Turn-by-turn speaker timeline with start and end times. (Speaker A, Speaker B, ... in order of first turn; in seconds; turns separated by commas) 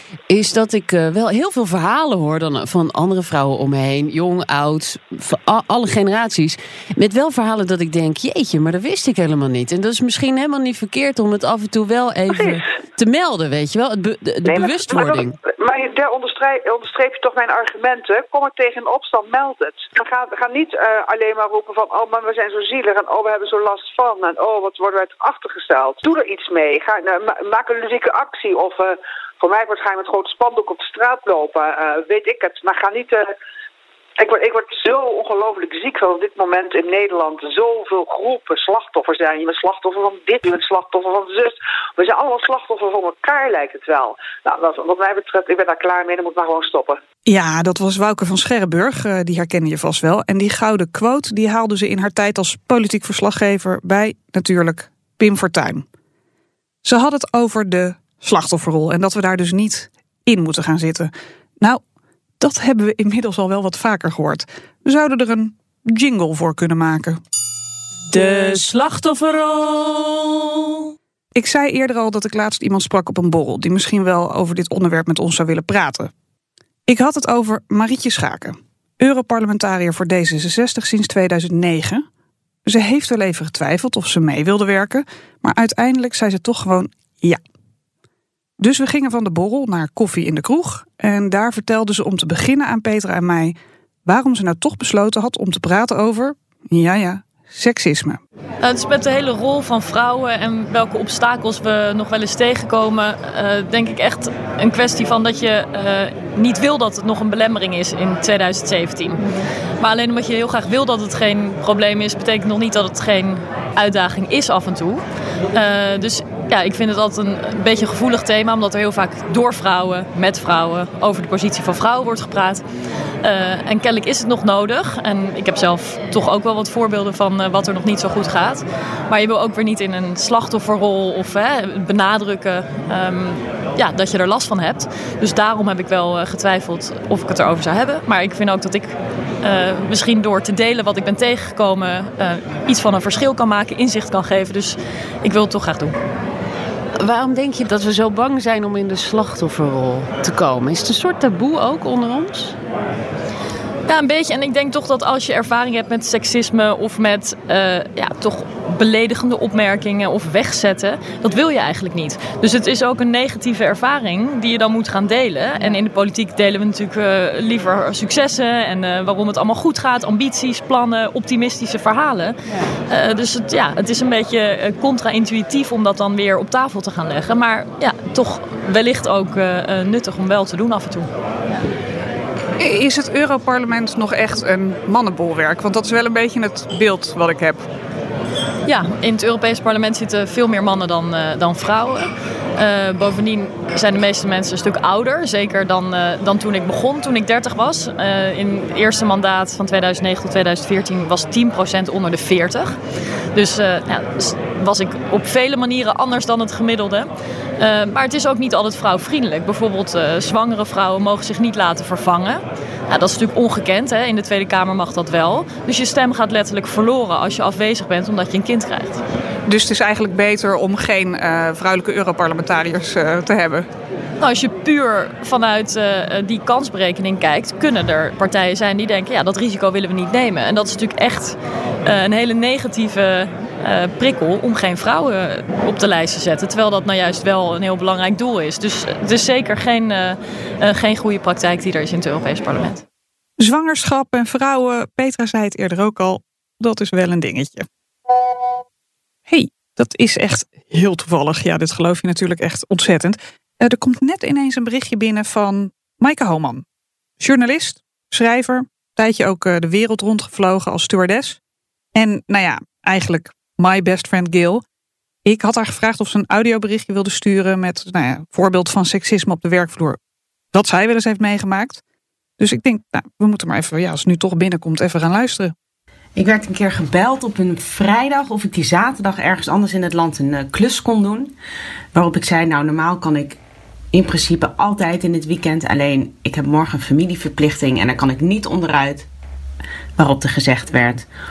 Speaker A: 0.3-15.4, Speaker B: 12.3-12.6, Speaker B: 14.5-33.3, Speaker B: 34.2-47.0, Speaker C: 47.3-55.9, Speaker C: 56.9-61.8, Speaker C: 62.4-67.2, Speaker A: 68.1-70.5, Speaker C: 71.4-76.1, Speaker C: 76.9-82.0, Speaker C: 82.7-87.4, Speaker C: 88.6-93.5, Speaker C: 94.1-98.2, Speaker D: 98.6-109.2, Speaker D: 109.8-115.0, Speaker D: 115.5-122.6, Speaker D: 123.2-146.0, Speaker A: 147.0-152.6, Speaker D: 153.9-172.4, Speaker D: 172.9-181.1, Speaker C: 182.6-187.6, Speaker D: 188.7-202.8, Speaker D: 203.3-219.0, Speaker C: 219.5-223.7, Speaker D: 224.2-242.8, Speaker C: 243.4-247.7, Speaker C: 249.3-256.6, Speaker C: 257.2-261.4, Speaker C: 262.0-264.6, Speaker C: 265.2-270.0, Speaker C: 270.5-271.8, Speaker C: 272.4-275.5, Speaker E: 276.2-281.3, Speaker E: 281.9-283.4, Speaker E: 283.9-289.1, Speaker E: 290.0-291.1